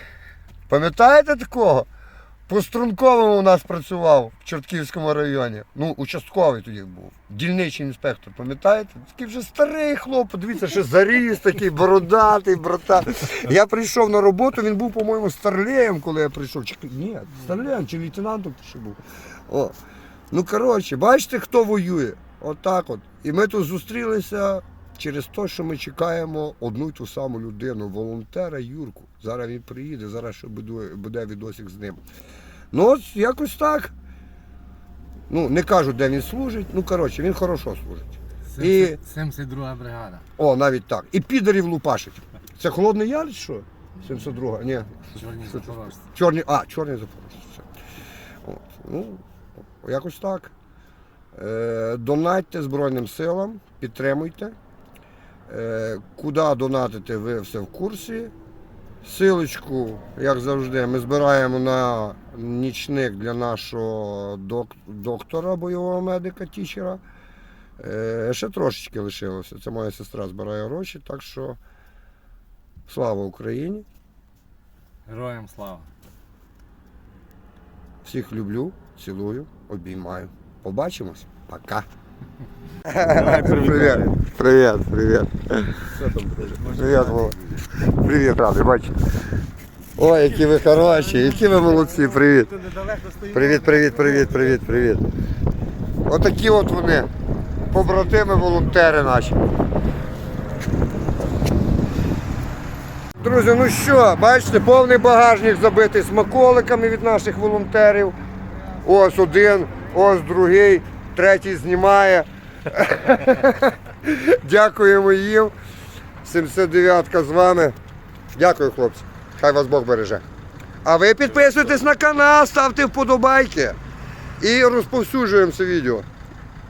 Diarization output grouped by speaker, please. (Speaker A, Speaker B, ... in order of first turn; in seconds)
Speaker A: 0.7-1.9, 2.5-19.8, 20.3-32.0, 32.7-33.9, 35.3-39.0, 40.4-47.7, 48.5-49.2, 49.8-50.5, 51.4-54.5, 55.5-58.3, 59.0-67.0, 67.8-71.6, 72.9-73.9, 78.0-81.9, 82.8-89.0, 90.0-92.6, 93.2-95.1, 96.1-97.1, 97.7-99.4, 103.2-108.2, 108.8-115.5, 116.2-117.8, 118.3-120.2, 120.8-123.8, 124.4-126.1
Speaker B: 38.5-40.3, 45.1-46.0, 75.1-75.9, 83.2-84.1, 86.9-87.3, 92.6-93.4